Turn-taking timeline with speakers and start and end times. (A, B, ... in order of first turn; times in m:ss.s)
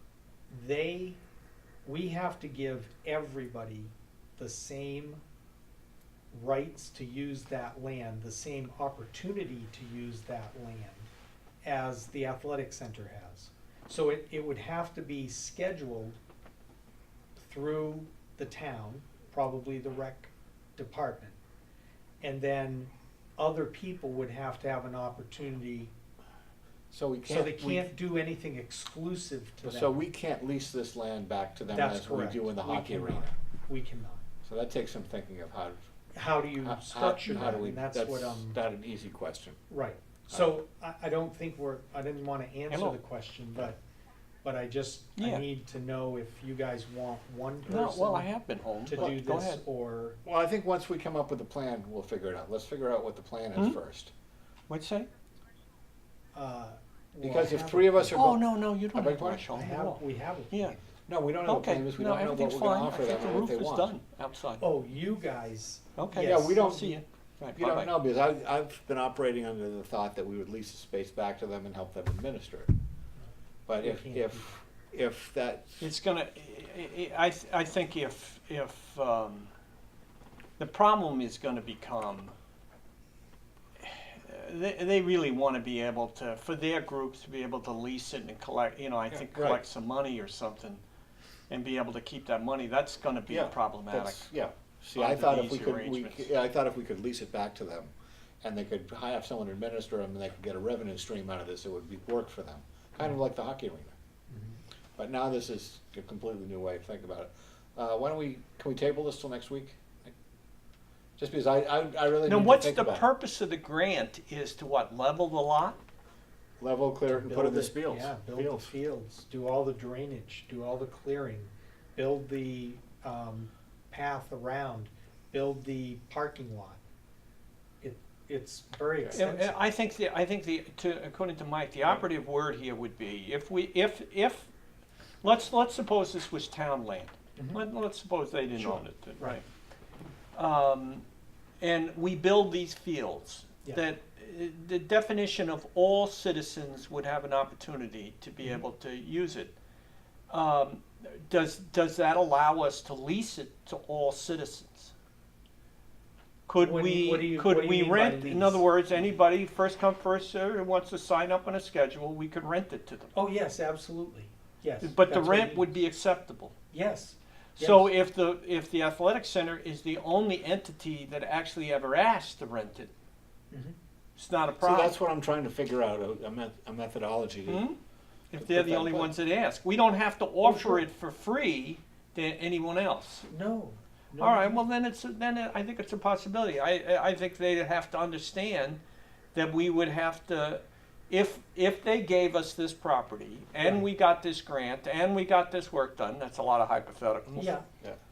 0:00.5-0:01.2 A
0:01.8-0:05.2 A
0:06.3-0:11.1 A
0:11.6-0:16.2 A
0:17.4-0:21.4 A
0:22.2-0:25.9 A
0:26.9-0:27.9 B
0:27.2-0:30.0 A
0:29.6-0:33.3 B
0:31.7-0:34.2 A
0:34.4-0:35.8 B
0:36.1-0:38.6 A
0:36.5-0:39.6 B
0:39.7-0:43.8 A
0:42.7-0:43.0 C
0:44.4-0:48.3 A
0:45.2-0:45.4 C
0:47.7-0:48.0 B
0:47.7-0:49.6 C
0:48.8-0:50.2 A
0:50.2-0:54.1 B
0:54.7-0:55.1 C
0:56.3-0:58.2 A
0:57.2-0:59.5 B
0:58.1-1:00.7 C
0:59.5-1:00.9 A
1:01.1-1:03.9 B
1:01.4-1:04.7 C
1:04.6-1:06.6 A
1:06.0-1:07.9 C
1:06.1-1:07.0 B
1:07.5-1:12.7 B
1:13.7-1:15.9 B
1:13.8-1:14.5 A
1:15.8-1:19.5 C
1:20.6-1:22.3 C
1:23.8-1:30.8 C
1:29.1-1:29.6 B
1:31.5-1:34.3 C
1:33.3-1:43.9 B
1:34.9-1:36.3 C
1:44.3-1:44.6 A
1:45.0-1:50.1 B
1:51.2-1:53.1 B
1:52.2-1:55.8 C
1:56.6-1:58.7 B
1:57.1-2:06.8 A
2:07.8-2:09.6 A
2:09.0-2:09.2 B
2:09.1-2:14.5 C
2:15.2-2:19.4 C
2:17.4-2:17.6 A
2:18.6-2:19.4 A
2:20.4-2:21.0 C
2:21.6-2:29.5 C
2:30.3-2:34.9 C
2:36.5-2:43.1 C
2:36.6-2:38.6 A
2:43.1-2:45.7 A
2:44.8-2:46.5 C
2:46.7-2:47.9 A
2:47.6-2:52.9 C
2:53.5-2:53.8 A
2:54.2-2:54.9 C
2:54.6-2:57.7 B
2:57.5-2:57.8 C
2:58.3-3:03.3 C
2:58.4-2:59.1 B
3:00.4-3:00.8 A
3:03.3-3:04.6 A
3:04.2-3:08.8 C
3:09.3-3:17.6 C
3:17.3-3:17.6 A